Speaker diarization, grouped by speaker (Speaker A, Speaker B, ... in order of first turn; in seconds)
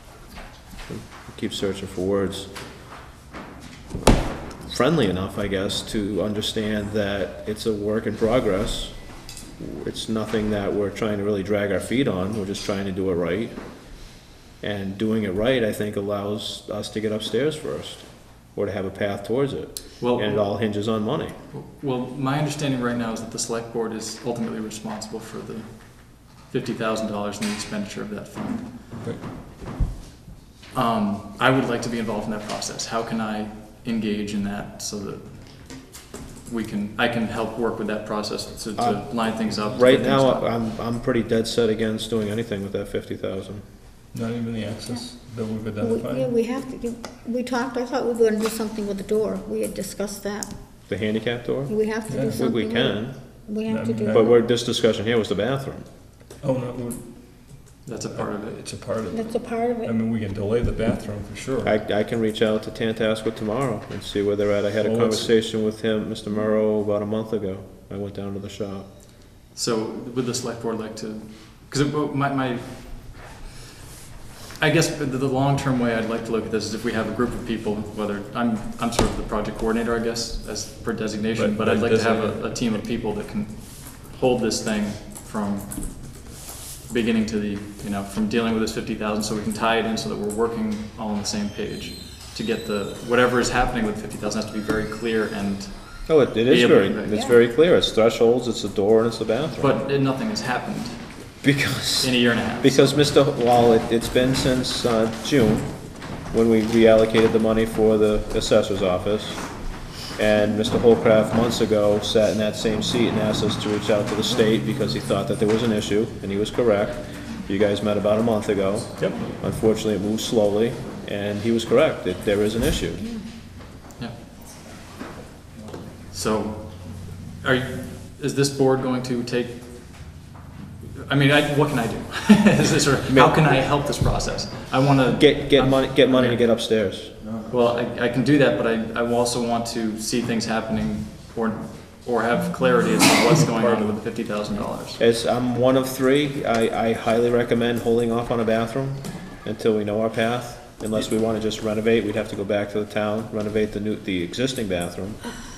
Speaker A: 0.9-2.5, 4.7-14.1, 14.6-21.4, 38.8-43.6, 50.9-51.7, 52.3-53.2, 54.1-55.9, 61.6-68.9, 96.1-99.8, 101.4-105.7, 106.3-109.5, 110.1-123.0, 133.1-133.5, 135.2-137.2, 145.0-155.2
Speaker B: 20.0-20.6, 21.5-28.8, 30.7-36.0, 36.5-40.5, 57.9-58.6, 69.5-73.2, 74.6-86.2, 86.9-97.3, 99.5-101.0, 102.0-102.9, 126.1-130.3, 130.9-136.4, 137.5-145.0
Speaker C: 29.0-29.2, 44.1-46.3, 52.1-52.4, 53.7-54.3, 56.4-61.8, 64.8-65.3, 81.3-82.5, 143.5-143.9
Speaker D: 45.8-50.5, 51.7-54.4, 59.1-59.9